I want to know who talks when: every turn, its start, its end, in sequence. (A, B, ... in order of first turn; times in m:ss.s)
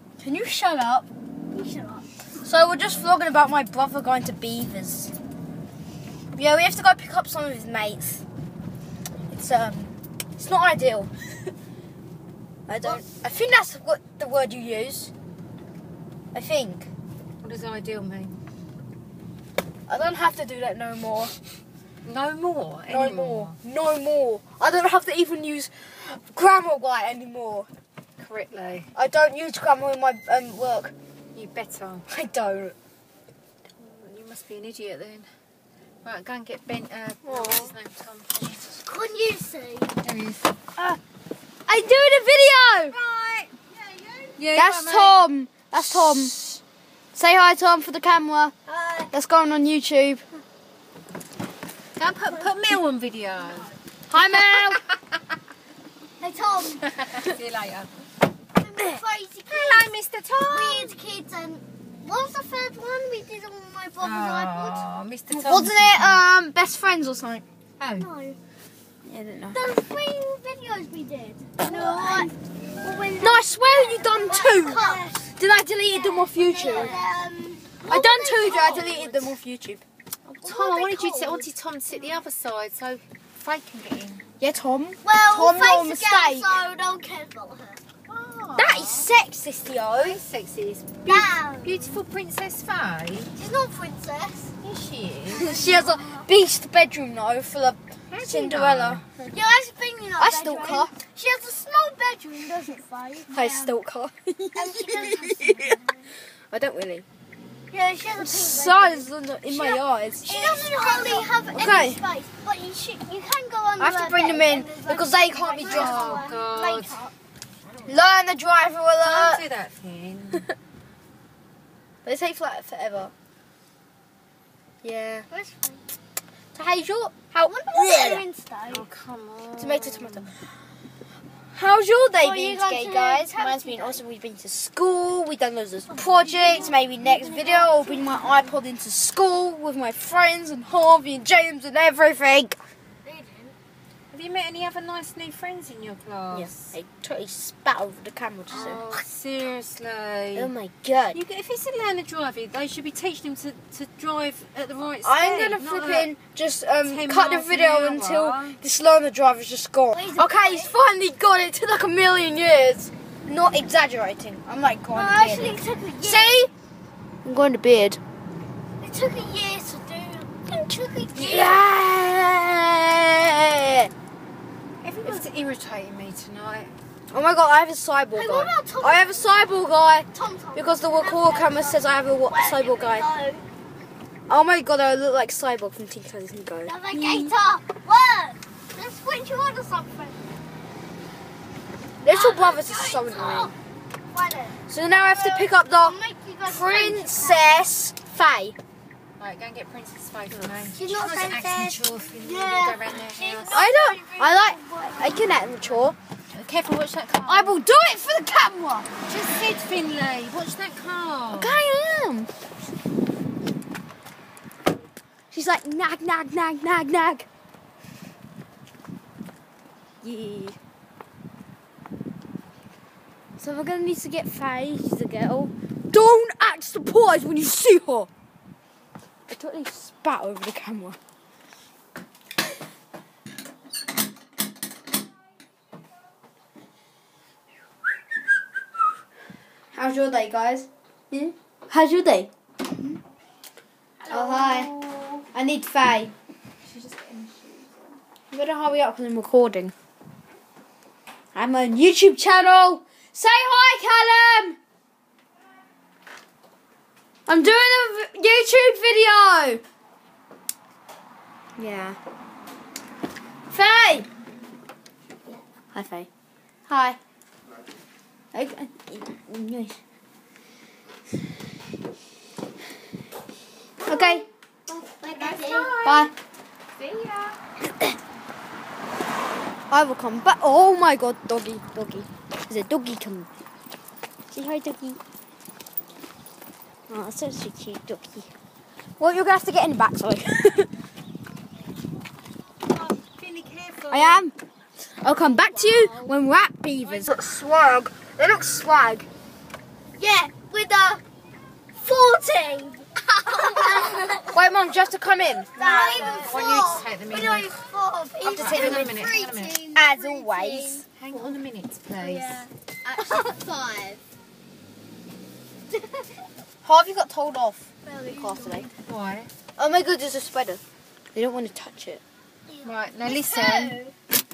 0:00.2-0:01.1 A
0:01.5-0:02.1 B
0:02.4-0:05.1 A
0:06.3-0:08.2 A
0:09.3-0:11.5 A
0:12.7-0:15.1 A
0:16.3-0:16.9 A
0:17.4-0:18.4 C
0:19.9-0:21.3 A
0:22.0-0:23.6 C
0:22.9-0:27.7 A
0:28.2-0:28.9 C
0:28.9-0:30.9 A
0:31.3-0:32.0 C
0:32.1-0:32.7 A
0:33.8-0:35.3 C
0:36.0-0:38.8 C
0:37.2-0:37.7 A
0:38.8-0:40.0 B
0:40.0-0:40.4 C
0:41.7-0:43.0 A
0:42.9-0:43.5 C
0:43.7-0:44.3 B
0:44.3-0:46.4 C
0:44.5-0:46.4 A
0:47.1-0:48.6 A
0:48.7-0:49.1 B
0:49.1-0:50.2 A
0:52.0-0:55.0 C
0:54.1-0:54.8 A
0:56.2-0:56.9 B
0:56.9-0:57.9 C
0:58.6-1:04.9 B
0:59.5-1:01.0 C
1:04.0-1:06.2 C
1:05.3-1:07.4 A
1:07.8-1:08.1 C
1:08.0-1:08.4 B
1:09.0-1:09.6 A
1:09.5-1:15.3 B
1:11.6-1:12.3 A
1:13.2-1:17.0 A
1:16.0-1:19.4 B
1:17.8-1:19.8 A
1:20.2-1:24.2 C
1:20.4-1:22.2 B
1:24.4-1:26.6 A
1:25.0-1:27.8 B
1:28.1-1:29.1 C
1:28.6-1:30.2 A
1:29.9-1:33.3 C
1:31.0-1:32.0 B
1:33.3-1:34.5 B
1:34.6-1:35.5 C
1:35.3-1:39.0 A
1:35.3-1:36.3 B
1:38.1-1:39.3 C
1:39.3-1:43.8 B
1:40.2-1:40.9 A
1:43.3-1:45.8 A
1:44.5-1:46.1 B
1:46.5-1:47.0 A
1:47.7-1:57.1 B
1:48.2-1:52.0 A
1:50.4-1:51.3 C
1:53.8-1:56.2 A
1:55.6-1:57.0 C
1:57.7-1:57.9 C
1:57.8-1:59.4 A
1:59.0-2:00.5 C
2:02.0-2:03.1 A
2:04.8-2:05.3 A
2:05.3-2:05.8 B
2:06.5-2:08.2 A
2:07.4-2:08.9 B
2:08.7-2:10.3 C
2:09.6-2:10.3 A
2:11.5-2:22.6 A
2:12.2-2:14.0 B
2:15.9-2:18.6 B
2:23.0-2:23.6 B
2:24.1-2:26.7 C
2:26.3-2:28.8 A
2:28.5-2:30.5 C
2:28.5-2:28.8 B
2:30.3-2:31.2 A
2:31.1-2:36.1 C
2:35.0-2:46.5 A
2:36.8-2:38.6 C
2:39.9-2:40.8 B
2:44.9-2:46.5 B
2:47.2-2:48.0 A
2:48.8-2:51.6 B
2:51.1-2:53.9 A
2:54.8-2:56.7 C
2:57.1-3:03.1 A
2:58.2-2:59.5 B
3:00.1-3:03.5 B
3:04.3-3:07.3 A
3:06.6-3:10.2 B
3:12.0-3:13.5 A
3:12.1-3:13.5 B
3:14.1-3:17.7 B
3:14.7-3:18.6 A
3:19.2-3:23.5 C
3:20.7-3:25.6 B
3:23.5-3:26.0 A
3:26.3-3:27.6 C
3:27.2-3:28.9 A
3:29.0-3:31.6 C
3:31.3-3:32.3 A
3:35.3-3:37.2 A
3:40.0-3:40.6 A
3:43.4-3:48.1 A
3:49.3-3:51.0 A
3:59.7-4:02.3 A
4:04.0-4:05.2 C
4:04.1-4:04.7 A
4:05.3-4:06.1 A
4:06.6-4:07.7 C
4:08.3-4:09.7 A
4:11.3-4:14.6 A
4:17.3-4:19.6 A
4:21.6-4:22.0 A
4:23.5-4:24.1 A
4:25.7-4:26.1 A
4:26.7-4:27.0 A
4:28.3-4:29.8 A
4:33.8-4:34.2 A
4:33.8-4:35.8 B
4:35.1-4:36.1 C
4:35.8-4:36.1 A
4:36.8-4:37.4 C
4:39.7-4:43.3 A
4:44.3-4:45.0 A
4:46.9-4:48.3 A
4:49.0-4:50.7 A
4:52.7-4:54.2 C
4:53.9-4:54.3 A
4:55.0-4:59.1 A
4:55.4-4:56.1 C
4:56.8-4:57.2 C
5:00.0-5:01.0 B
5:01.7-5:04.3 B
5:04.2-5:06.3 A
5:05.5-5:11.2 B
5:05.7-5:07.5 C
5:08.2-5:08.9 A
5:08.2-5:09.6 C
5:09.7-5:10.8 A
5:10.9-5:12.4 C
5:12.0-5:14.0 B
5:16.6-5:17.6 A
5:17.8-5:18.7 B
5:18.2-5:18.7 A
5:18.8-5:19.3 C
5:19.6-5:20.6 A
5:21.1-5:22.0 A
5:22.5-5:23.9 B
5:22.6-5:23.8 C